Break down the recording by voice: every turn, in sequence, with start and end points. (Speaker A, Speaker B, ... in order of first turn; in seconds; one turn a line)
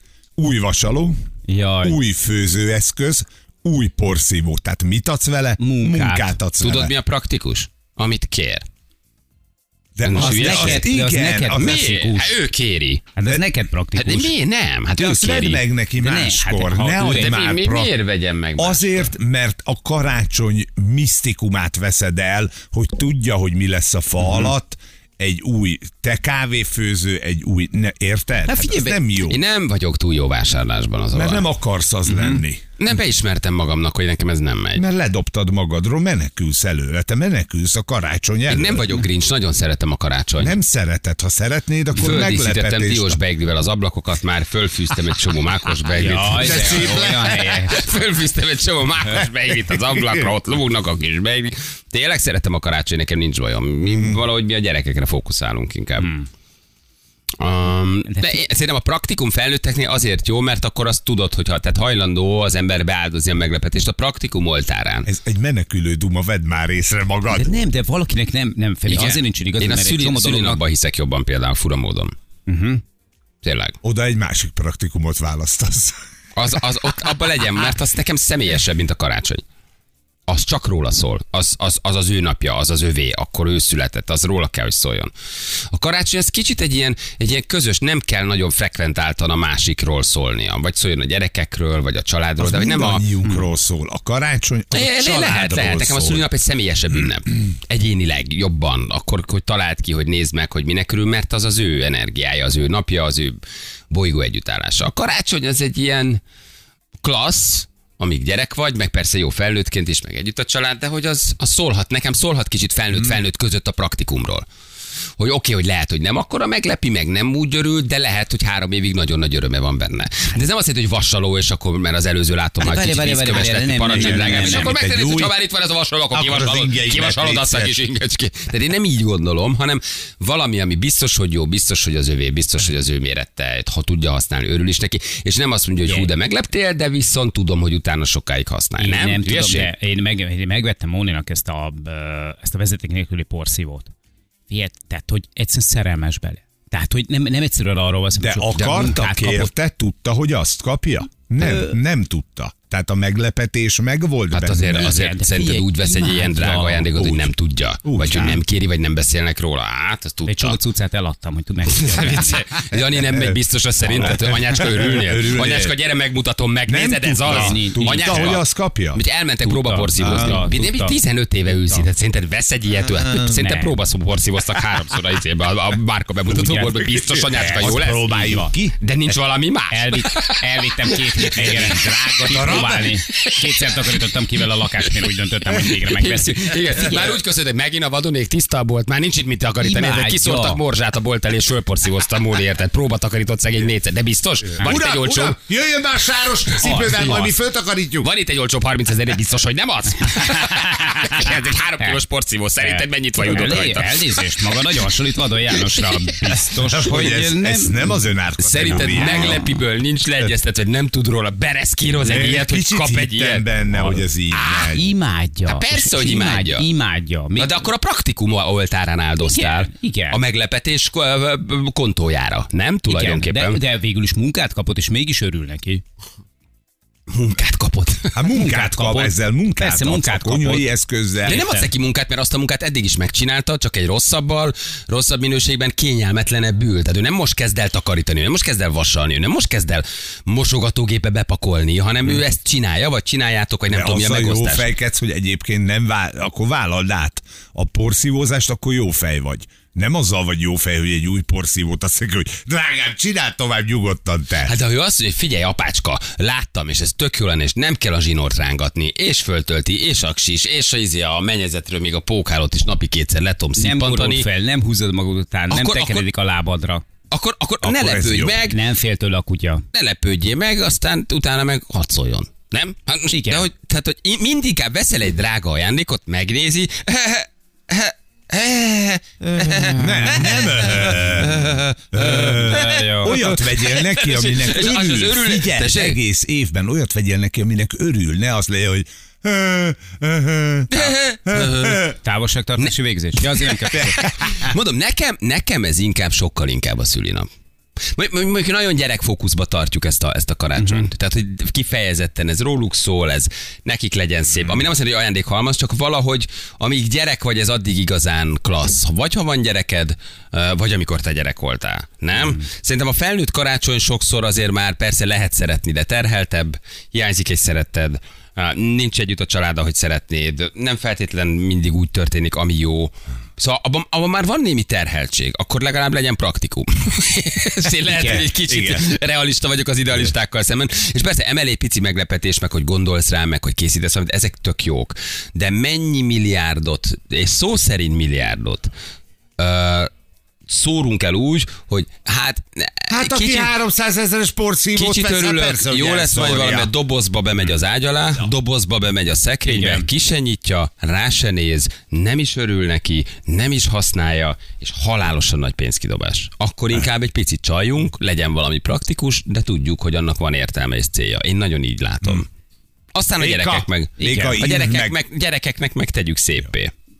Speaker A: 0.4-1.2
Speaker B: 1.5-2.0
Speaker A: 1.8-6.9
Speaker B: 5.6-6.3
Speaker C: 6.6-8.6
Speaker A: 9.9-11.9
Speaker C: 10.0-10.9
Speaker B: 10.1-12.3
Speaker C: 11.5-13.1
Speaker B: 13.2-14.3
Speaker C: 13.9-15.6
Speaker A: 15.0-17.9
Speaker B: 16.0-17.3
Speaker C: 17.0-19.1
Speaker A: 18.6-29.4
Speaker C: 28.5-31.5
Speaker A: 31.1-32.7
Speaker B: 32.1-32.4
Speaker C: 32.8-34.8
Speaker A: 34.7-38.9
Speaker C: 38.5-40.6
Speaker A: 40.4-43.2
Speaker C: 42.0-56.1
Speaker B: 46.0-47.8
Speaker A: 46.2-47.2
Speaker A: 49.9-50.2
Speaker A: 53.8-54.2
Speaker B: 56.0-56.3
Speaker C: 57.4-65.1
Speaker B: 58.1-58.4
Speaker A: 65.0-67.6
Speaker B: 67.3-70.6
Speaker C: 68.9-72.1
Speaker B: 72.5-72.8
Speaker C: 73.4-73.8
Speaker A: 73.8-76.0
Speaker C: 76.3-79.4
Speaker C: 80.3-93.1
Speaker A: 92.4-96.2
Speaker C: 94.7-103.4
Speaker C: 103.9-106.2
Speaker C: 107.0-114.5
Speaker C: 115.2-139.7
Speaker B: 122.6-124.7
Speaker A: 123.9-125.3
Speaker A: 126.1-127.8
Speaker B: 138.8-143.9
Speaker B: 144.5-149.5
Speaker A: 148.2-154.9
Speaker C: 148.6-148.9
Speaker B: 151.4-151.8
Speaker C: 154.3-160.6
Speaker B: 154.7-156.9
Speaker A: 156.9-157.3
Speaker A: 157.8-158.4
Speaker B: 160.2-162.4
Speaker C: 161.7-183.9
Speaker B: 163.9-164.1
Speaker A: 164.0-165.7
Speaker A: 166.7-169.0
Speaker B: 167.2-168.3
Speaker B: 169.4-171.0
Speaker A: 170.0-170.4
Speaker A: 173.1-173.3
Speaker B: 173.2-173.7
Speaker B: 176.3-177.8
Speaker A: 177.0-178.8
Speaker B: 179.7-186.9
Speaker A: 182.3-182.9
Speaker C: 185.5-195.4
Speaker B: 189.6-190.6
Speaker A: 194.6-198.1
Speaker B: 196.6-196.9
Speaker C: 196.7-197.3
Speaker C: 198.0-204.4
Speaker B: 200.1-202.0
Speaker B: 202.6-208.0
Speaker C: 205.6-205.9
Speaker A: 206.6-209.4
Speaker C: 208.4-213.4
Speaker B: 208.6-209.5
Speaker A: 212.0-214.8
Speaker C: 214.3-214.7
Speaker B: 214.7-217.7
Speaker C: 215.5-216.7
Speaker C: 217.3-223.6
Speaker B: 219.2-220.2
Speaker B: 222.9-225.8
Speaker C: 227.1-228.1
Speaker A: 228.1-231.4
Speaker B: 228.3-230.7
Speaker B: 231.2-231.7
Speaker C: 231.2-244.7
Speaker A: 243.7-254.6
Speaker C: 254.4-264.2
Speaker B: 263.6-266.8
Speaker C: 265.5-266.1
Speaker C: 267.1-268.6
Speaker A: 267.6-268.4
Speaker B: 268.4-269.6
Speaker C: 269.7-286.0
Speaker B: 273.1-273.5
Speaker A: 279.4-291.9
Speaker B: 279.6-280.3
Speaker B: 282.0-283.2
Speaker C: 290.7-291.9
Speaker B: 292.0-294.0
Speaker C: 293.2-297.3
Speaker A: 293.7-294.5
Speaker C: 297.8-338.7
Speaker B: 300.6-300.9
Speaker B: 327.9-328.3
Speaker A: 328.5-328.9
Speaker C: 339.4-339.9
Speaker C: 340.5-343.5
Speaker A: 342.9-346.7
Speaker C: 344.7-362.3
Speaker B: 349.4-349.9
Speaker C: 362.9-366.7
Speaker A: 363.2-364.9
Speaker B: 364.0-364.4